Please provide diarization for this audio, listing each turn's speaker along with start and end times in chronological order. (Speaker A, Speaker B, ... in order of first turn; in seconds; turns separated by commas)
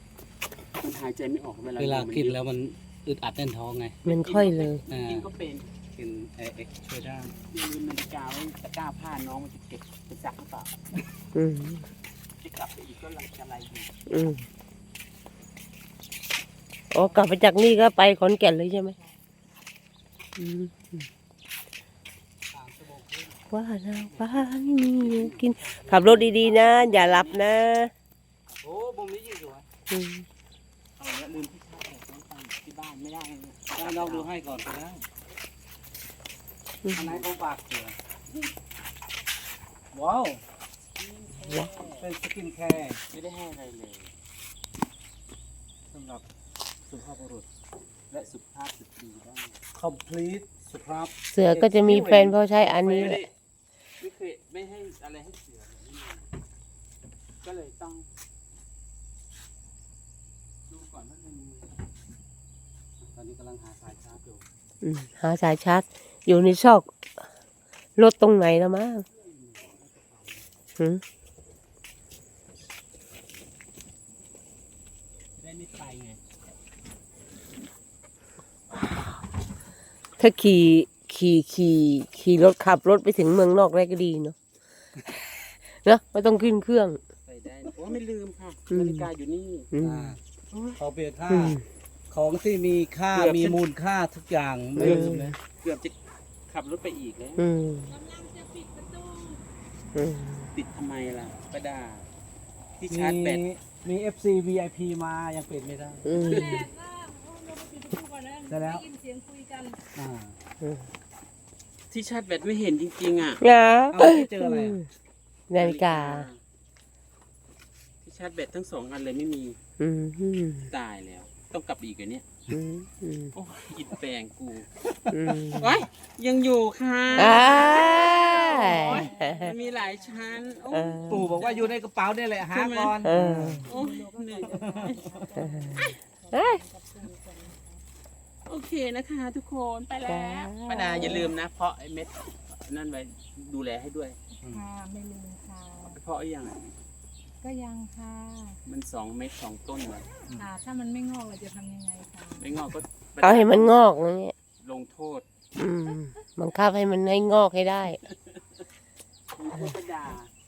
Speaker A: 0.8-2.4, Speaker B: 1.8-4.0, Speaker C: 4.0-4.8, Speaker A: 4.0-5.7, Speaker B: 4.9-5.3, Speaker B: 6.0-7.3, Speaker A: 7.4-10.7, Speaker C: 11.3-11.9, Speaker A: 12.4-13.9, Speaker C: 14.1-14.5, Speaker C: 16.9-19.0, Speaker C: 20.4-21.1, Speaker B: 22.5-23.4, Speaker C: 23.5-27.9, Speaker B: 25.0-27.3, Speaker A: 26.6-27.2, Speaker B: 28.6-29.7, Speaker C: 29.9-30.3, Speaker A: 31.0-34.3, Speaker B: 33.8-35.1, Speaker C: 36.8-37.2, Speaker B: 36.9-38.0, Speaker B: 39.9-40.4, Speaker A: 41.0-42.1, Speaker B: 42.0-43.0, Speaker A: 43.1-44.1, Speaker B: 45.9-46.2, Speaker B: 46.9-47.5, Speaker A: 48.1-49.6, Speaker B: 49.8-52.4, Speaker C: 51.3-53.2, Speaker A: 52.7-53.3, Speaker A: 54.0-56.3, Speaker A: 57.4-58.1, Speaker A: 60.7-61.7, Speaker B: 63.1-64.4, Speaker C: 64.8-66.9, Speaker C: 68.0-69.1, Speaker A: 69.1-70.5, Speaker C: 70.8-71.0, Speaker A: 75.4-76.2, Speaker C: 80.2-84.4, Speaker C: 85.7-87.0, Speaker A: 87.2-89.7, Speaker C: 88.7-89.1, Speaker C: 89.7-90.2, Speaker B: 89.8-90.2, Speaker B: 90.8-95.4, Speaker C: 91.3-91.6, Speaker A: 93.1-93.6, Speaker C: 94.8-95.4, Speaker A: 94.8-96.0, Speaker A: 96.5-97.5, Speaker C: 97.4-97.9, Speaker D: 97.9-99.4, Speaker C: 100.0-100.5, Speaker A: 100.5-102.1, Speaker A: 102.8-103.5, Speaker B: 102.9-106.1, Speaker C: 106.1-106.5, Speaker D: 106.1-109.8, Speaker A: 106.2-106.7, Speaker B: 108.5-108.8, Speaker B: 110.0-110.4, Speaker C: 110.6-110.9, Speaker A: 111.9-113.4, Speaker C: 113.4-114.9, Speaker B: 113.9-114.8, Speaker C: 115.5-116.3, Speaker A: 115.6-116.4, Speaker A: 118.0-119.6, Speaker C: 119.8-120.7, Speaker A: 120.7-122.2, Speaker C: 122.5-123.3, Speaker A: 123.3-124.7, Speaker C: 125.1-125.8, Speaker A: 125.5-131.2, Speaker C: 127.2-129.5, Speaker D: 127.2-131.8, Speaker C: 130.7-131.2, Speaker B: 131.1-133.7, Speaker A: 132.5-133.2, Speaker C: 133.0-133.7, Speaker D: 133.7-137.8, Speaker A: 133.7-135.1, Speaker B: 134.4-135.3, Speaker C: 135.4-136.6, Speaker A: 138.5-144.2, Speaker C: 140.1-141.3, Speaker D: 144.5-146.0, Speaker A: 145.9-146.7, Speaker D: 147.4-148.6, Speaker A: 148.7-150.1, Speaker D: 150.4-152.5, Speaker A: 152.4-153.7, Speaker C: 153.2-154.3, Speaker A: 154.6-155.3, Speaker C: 155.6-158.0, Speaker A: 159.4-160.3